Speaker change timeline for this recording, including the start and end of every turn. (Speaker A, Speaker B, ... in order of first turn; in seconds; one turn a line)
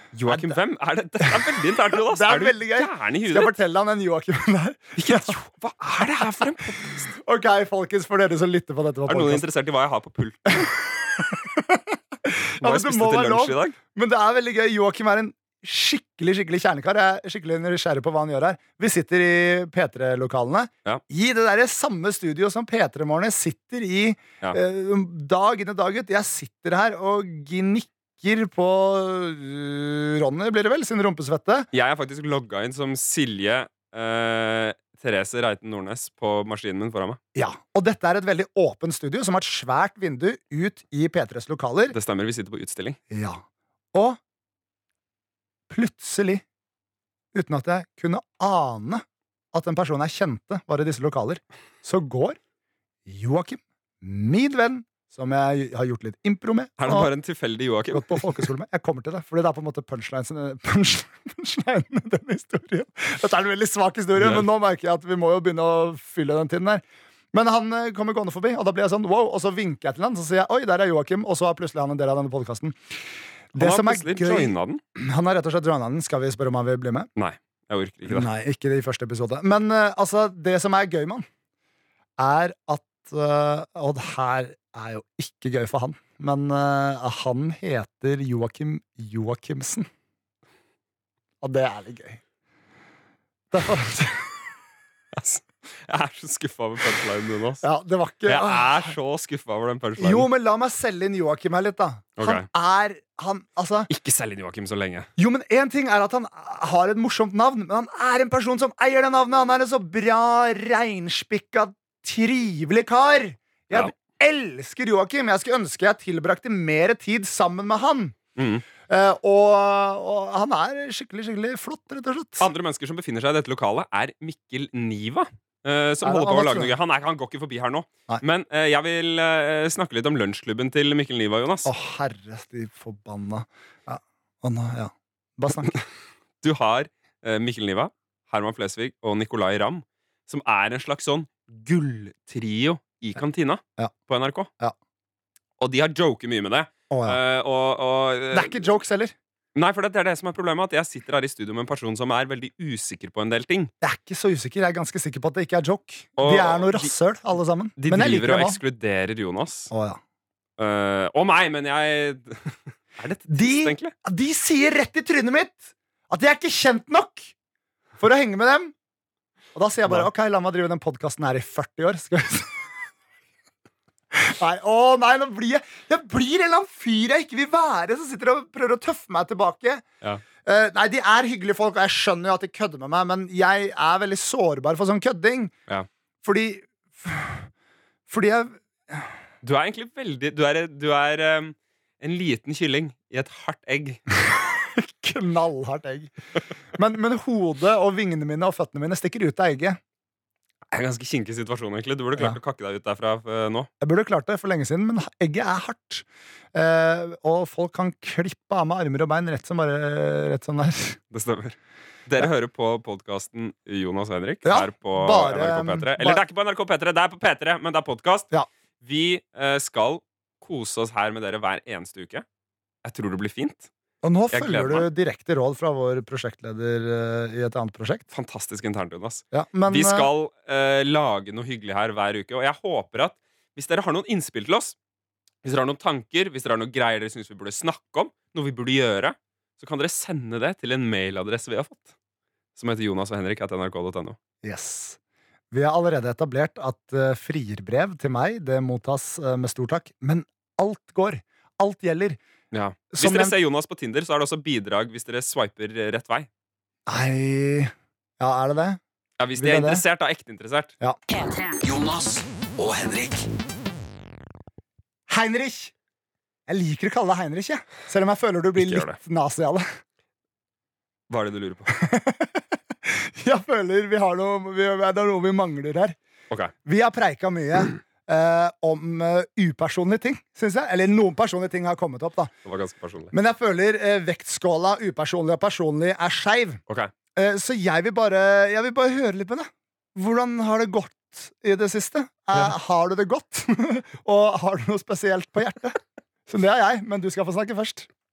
Speaker A: 0.1-3.5
Speaker B: 0.3-0.6
Speaker B: 1.2-5.3
Speaker A: 5.0-7.2
Speaker B: 6.2-6.5
Speaker B: 7.2-9.4
Speaker A: 9.1-10.7
Speaker B: 10.6-31.7
Speaker A: 12.6-13.7
Speaker A: 31.7-37.2
Speaker B: 37.3-42.0
Speaker A: 41.9-43.0
Speaker B: 43.1-43.4
Speaker B: 43.9-44.2
Speaker B: 45.7-46.4
Speaker B: 47.3-52.4
Speaker B: 53.0-57.1
Speaker A: 56.8-58.4
Speaker B: 57.9-72.8
Speaker A: 64.2-64.5
Speaker B: 73.5-77.1
Speaker A: 73.5-74.8
Speaker A: 77.2-78.3
Speaker B: 78.1-81.2
Speaker B: 82.2-89.9
Speaker B: 91.4-92.2
Speaker B: 93.5-94.3
Speaker A: 95.1-97.7
Speaker B: 97.6-98.9
Speaker A: 98.2-100.3
Speaker B: 100.0-103.9
Speaker A: 102.2-102.5
Speaker A: 103.9-105.1
Speaker B: 105.2-118.2
Speaker A: 118.4-118.6
Speaker B: 118.9-122.5
Speaker A: 122.4-131.7
Speaker B: 126.0-126.7
Speaker B: 131.6-135.8
Speaker A: 136.4-144.5
Speaker A: 145.6-148.6
Speaker B: 146.9-147.2
Speaker B: 148.3-149.1
Speaker A: 149.5-153.7
Speaker B: 153.8-158.6
Speaker A: 156.2-156.9
Speaker A: 157.8-159.7
Speaker B: 159.7-160.0
Speaker A: 160.6-163.9
Speaker B: 163.3-167.3
Speaker B: 168.0-168.7
Speaker B: 169.5-172.6
Speaker B: 174.1-179.8
Speaker B: 180.4-185.5
Speaker B: 186.2-187.5
Speaker B: 188.1-189.1
Speaker A: 189.4-194.0
Speaker B: 194.1-196.1
Speaker B: 196.7-199.8
Speaker A: 200.7-203.7
Speaker B: 203.8-211.0
Speaker A: 211.1-211.6
Speaker A: 212.1-218.3
Speaker B: 214.4-216.2
Speaker A: 218.8-222.2
Speaker A: 222.8-223.7
Speaker B: 224.0-228.0
Speaker A: 224.3-224.9
Speaker A: 228.1-234.7
Speaker B: 229.3-230.1
Speaker A: 235.4-241.9
Speaker A: 242.6-244.2
Speaker B: 244.4-245.0
Speaker B: 245.5-252.2
Speaker A: 252.5-256.3
Speaker B: 252.9-253.3
Speaker B: 256.9-258.8
Speaker A: 259.2-260.7
Speaker B: 259.4-259.8
Speaker C: 261.3-263.3
Speaker B: 265.1-265.7
Speaker B: 266.5-269.6
Speaker A: 268.6-269.0
Speaker A: 271.1-271.8
Speaker B: 271.7-275.9
Speaker B: 276.6-282.3
Speaker A: 282.4-283.1
Speaker B: 283.1-286.6
Speaker B: 287.1-297.9